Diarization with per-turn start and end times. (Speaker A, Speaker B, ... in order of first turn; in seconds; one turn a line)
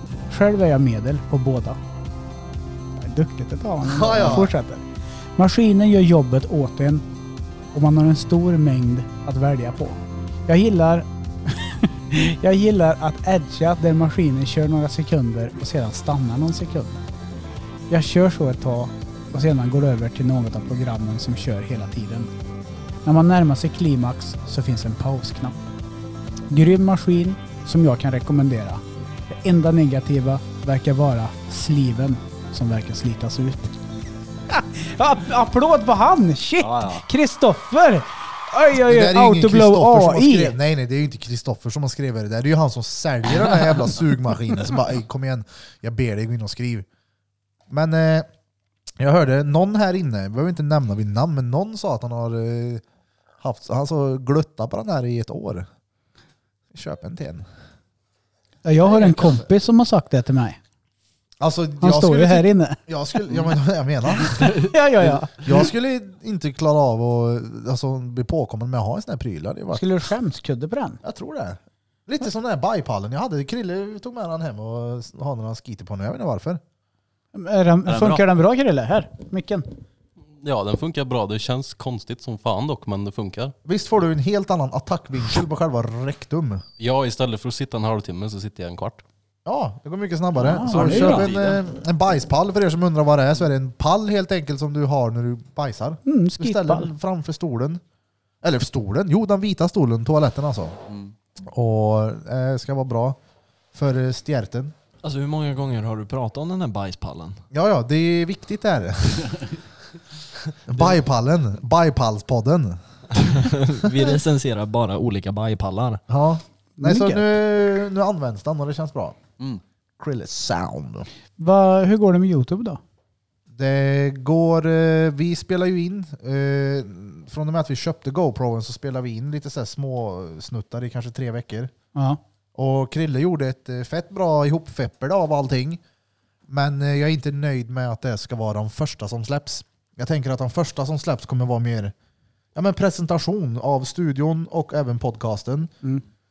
Speaker A: 0.3-1.8
Speaker A: 3.0-4.8
Speaker B: 3.8-4.5
Speaker A: 5.4-7.0
Speaker A: 7.7-17.0
Speaker A: 17.9-22.3
Speaker A: 23.1-25.6
Speaker A: 26.5-33.8
Speaker A: 34.5-40.6
Speaker C: 36.6-37.0
Speaker B: 38.7-46.9
Speaker B: 47.7-48.3
Speaker B: 49.0-52.8
Speaker B: 53.4-55.7
Speaker B: 56.7-57.5
Speaker A: 58.6-60.6
Speaker B: 58.9-59.5
Speaker B: 61.4-69.8
Speaker A: 61.8-62.8
Speaker A: 64.2-65.5
Speaker A: 69.7-71.0
Speaker B: 71.0-76.6
Speaker A: 77.3-79.7
Speaker C: 77.9-78.2
Speaker C: 80.4-83.5
Speaker B: 83.7-86.6
Speaker C: 86.8-89.0
Speaker B: 89.5-97.8
Speaker C: 90.4-91.6
Speaker A: 90.5-91.3
Speaker A: 96.0-96.9
Speaker B: 98.4-100.8
Speaker C: 100.9-101.1
Speaker B: 101.5-103.2
Speaker B: 103.7-104.7
Speaker D: 105.0-107.4
Speaker B: 107.5-109.4
Speaker B: 110.7-112.8
Speaker D: 113.2-116.0
Speaker B: 116.1-119.2
Speaker A: 116.8-117.3
Speaker B: 120.0-121.1
Speaker A: 121.4-122.8
Speaker B: 123.5-131.7
Speaker A: 131.9-132.2
Speaker B: 132.6-135.8
Speaker B: 136.5-141.9
Speaker B: 142.6-145.8